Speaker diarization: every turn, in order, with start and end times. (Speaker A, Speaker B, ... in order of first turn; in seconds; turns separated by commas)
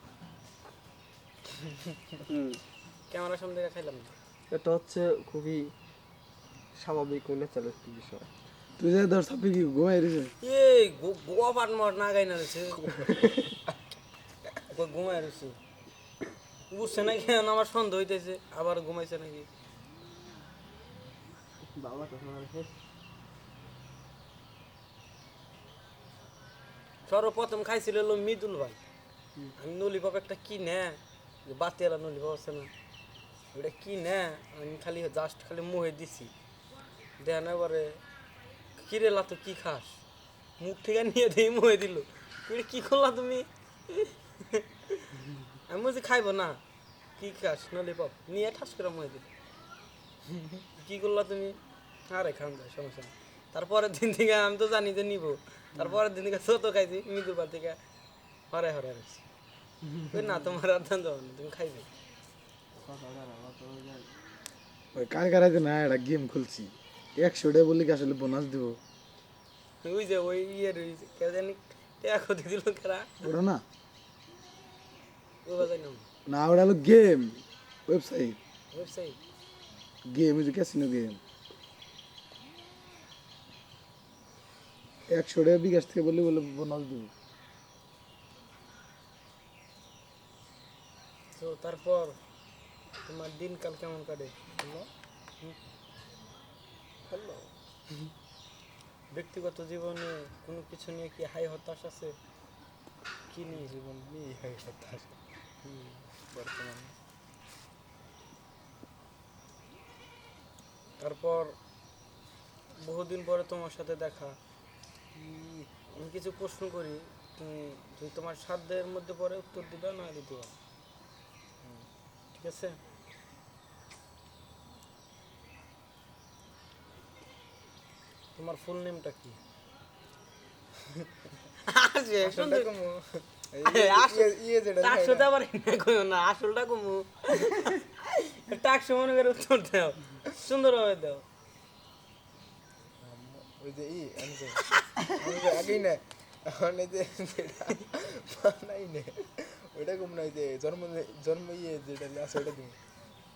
Speaker A: 2.3-2.6, Speaker B: 3.1-4.1, Speaker A: 4.5-5.7, Speaker A: 6.8-8.3, Speaker C: 8.8-10.3, Speaker B: 10.4-12.9, Speaker D: 12.9-13.3, Speaker B: 14.7-15.6, Speaker B: 16.7-19.5, Speaker A: 21.6-22.7, Speaker B: 27.1-28.8, Speaker B: 29.6-32.7, Speaker B: 33.5-36.3, Speaker B: 37.2-38.0, Speaker B: 38.8-40.0, Speaker B: 40.6-45.1, Speaker B: 45.7-46.6, Speaker B: 47.2-49.3, Speaker B: 50.8-51.6, Speaker B: 52.1-57.8, Speaker B: 58.5-59.2, Speaker B: 60.0-61.9, Speaker A: 62.7-64.1, Speaker C: 64.9-68.8, Speaker B: 69.8-73.3, Speaker C: 73.2-73.6, Speaker B: 75.4-76.1, Speaker C: 76.3-78.4, Speaker B: 78.7-79.2, Speaker C: 80.1-81.2, Speaker C: 85.1-87.1, Speaker B: 91.3-92.2, Speaker B: 93.0-94.3, Speaker D: 94.5-94.9, Speaker D: 97.1-97.5, Speaker B: 99.1-102.2, Speaker B: 103.3-103.7, Speaker D: 103.5-105.2, Speaker B: 105.6-106.0, Speaker D: 106.2-106.9, Speaker B: 111.0-111.5, Speaker B: 112.8-114.4, Speaker D: 115.1-115.7, Speaker B: 115.9-120.5, Speaker D: 121.6-121.9, Speaker B: 122.4-122.8, Speaker B: 128.3-129.4, Speaker B: 131.7-132.7, Speaker D: 132.2-135.3, Speaker B: 133.6-141.2, Speaker D: 143.0-152.8